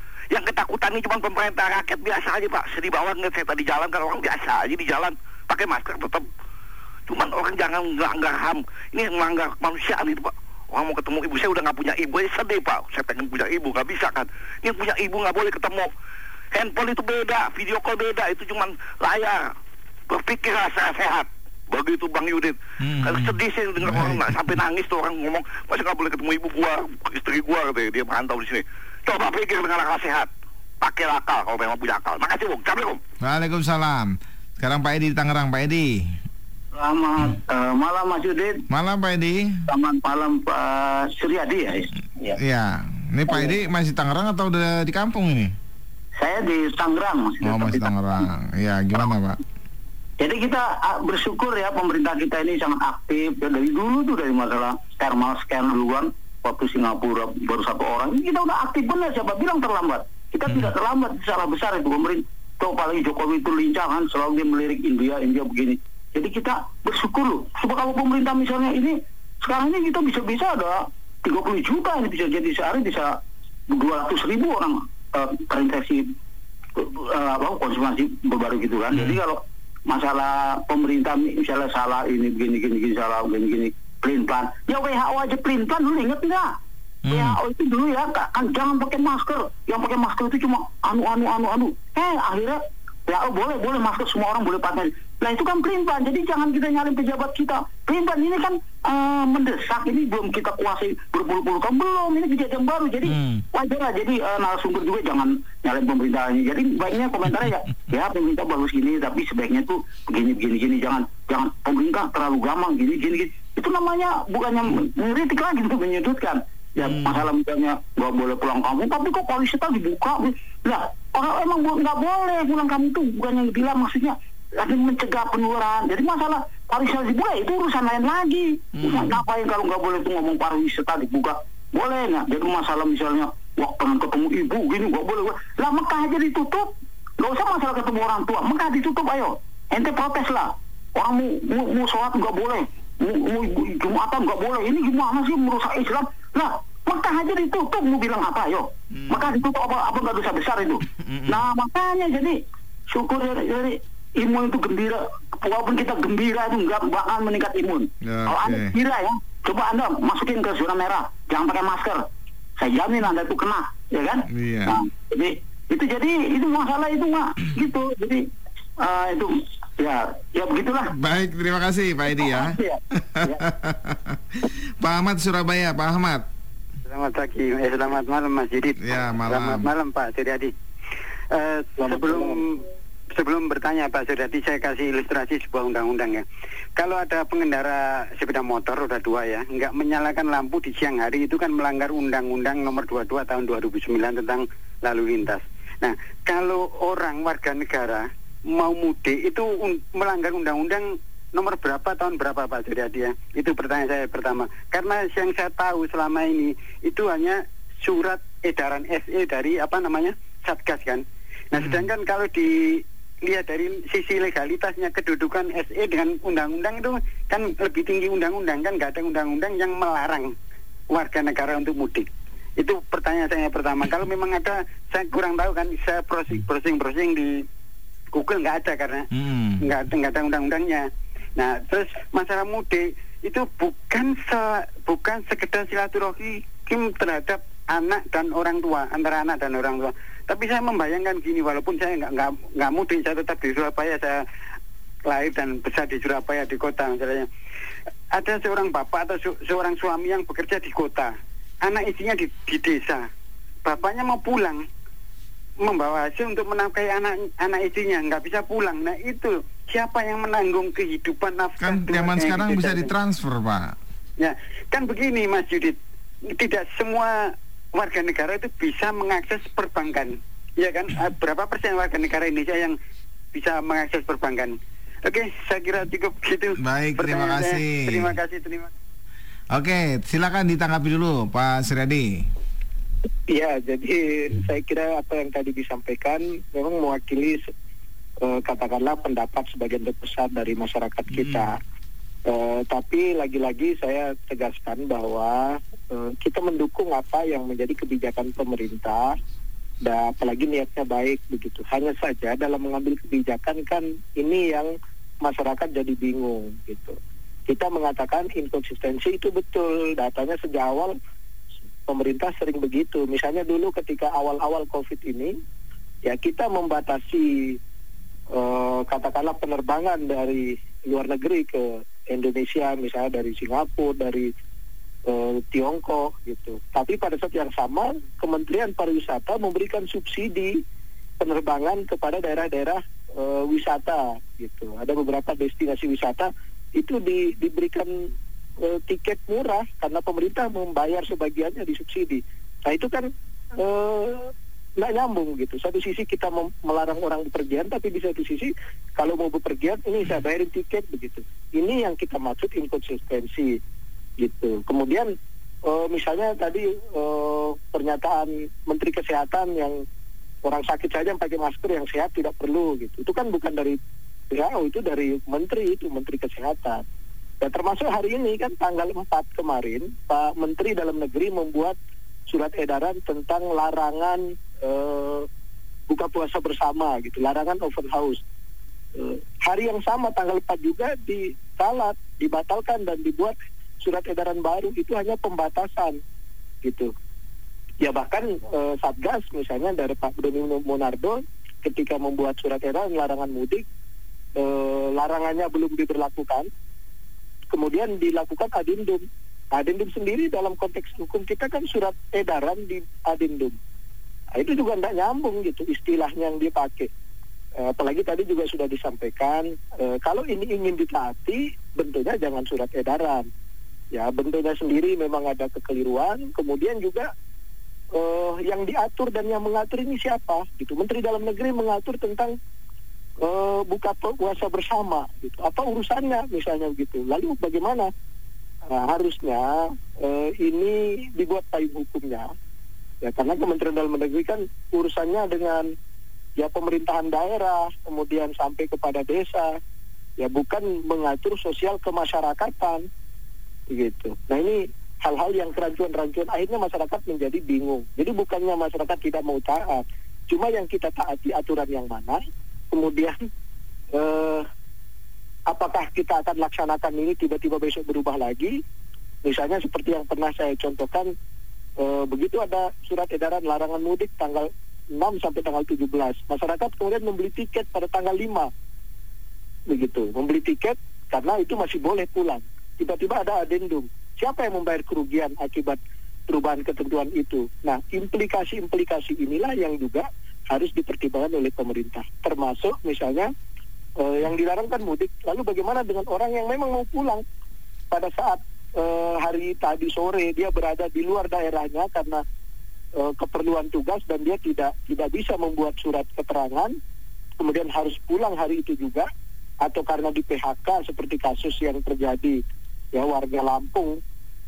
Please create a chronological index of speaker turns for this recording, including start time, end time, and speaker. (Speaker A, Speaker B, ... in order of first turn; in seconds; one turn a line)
Speaker A: 0.3-6.3
Speaker A: 7.1-15.9
Speaker A: 16.5-19.4
Speaker A: 20.1-30.3
Speaker B: 22.8-24.3
Speaker A: 30.8-33.0
Speaker B: 33.2-35.9
Speaker C: 36.7-38.6
Speaker B: 38.7-39.6
Speaker C: 39.7-42.4
Speaker B: 42.4-45.5
Speaker C: 43.3-43.6
Speaker C: 46.2-48.2
Speaker B: 47.4-49.4
Speaker C: 50.2-73.2
Speaker C: 73.7-76.1
Speaker C: 76.8-86.6
Speaker B: 78.9-79.2
Speaker B: 87.0-87.4
Speaker C: 87.1-162.0
Speaker B: 103.1-103.4
Speaker B: 116.8-117.2
Speaker B: 128.8-129.2
Speaker B: 148.9-149.4
Speaker B: 151.0-151.4
Speaker B: 158.1-158.7
Speaker C: 162.6-168.3
Speaker B: 164.3-164.8
Speaker C: 168.8-170.9
Speaker B: 170.9-176.2
Speaker C: 172.1-173.3
Speaker D: 176.9-180.5
Speaker B: 178.8-179.7
Speaker D: 181.3-182.6
Speaker E: 181.8-182.4
Speaker D: 183.1-186.2
Speaker D: 186.8-220.3
Speaker B: 211.5-211.9
Speaker D: 220.9-222.1
Speaker D: 222.6-227.4
Speaker D: 228.1-229.1
Speaker B: 229.1-229.7
Speaker D: 229.6-230.8
Speaker D: 231.4-244.2
Speaker D: 245.1-247.3
Speaker D: 248.1-253.1
Speaker D: 253.6-254.6
Speaker D: 255.6-262.9
Speaker B: 261.6-263.7
Speaker D: 264.2-272.8
Speaker D: 273.3-278.7
Speaker B: 276.6-278.1
Speaker B: 279.5-282.1
Speaker E: 283.3-287.5
Speaker E: 288.2-291.6
Speaker B: 291.1-291.4
Speaker E: 292.3-299.1
Speaker E: 299.8-304.7
Speaker E: 305.2-307.0
Speaker E: 307.5-310.9
Speaker E: 311.9-315.3
Speaker E: 316.1-317.6
Speaker E: 318.3-324.3
Speaker E: 325.1-330.6
Speaker E: 331.2-337.9
Speaker E: 338.6-353.6
Speaker E: 354.2-355.1
Speaker E: 355.6-359.8
Speaker E: 360.4-363.8
Speaker E: 364.3-366.8
Speaker E: 367.4-371.8
Speaker E: 372.3-375.3
Speaker E: 375.9-378.2
Speaker E: 378.9-386.0
Speaker E: 386.6-386.9
Speaker E: 387.8-393.6
Speaker E: 394.4-396.5
Speaker E: 397.5-399.0
Speaker E: 399.5-403.6
Speaker E: 404.3-406.9
Speaker E: 407.6-413.3
Speaker E: 413.9-417.1
Speaker E: 417.9-422.3
Speaker E: 423.2-427.9
Speaker E: 428.7-432.3
Speaker E: 433.0-435.7
Speaker E: 436.4-439.6
Speaker E: 440.2-442.9
Speaker E: 443.7-452.2
Speaker E: 452.7-453.1
Speaker E: 453.9-454.4
Speaker E: 455.5-458.5
Speaker E: 459.2-461.1
Speaker E: 461.8-468.5
Speaker E: 469.7-483.3
Speaker E: 484.0-487.2
Speaker E: 487.9-492.2
Speaker E: 493.0-496.7
Speaker E: 497.4-499.1
Speaker E: 499.6-502.4
Speaker E: 502.9-504.0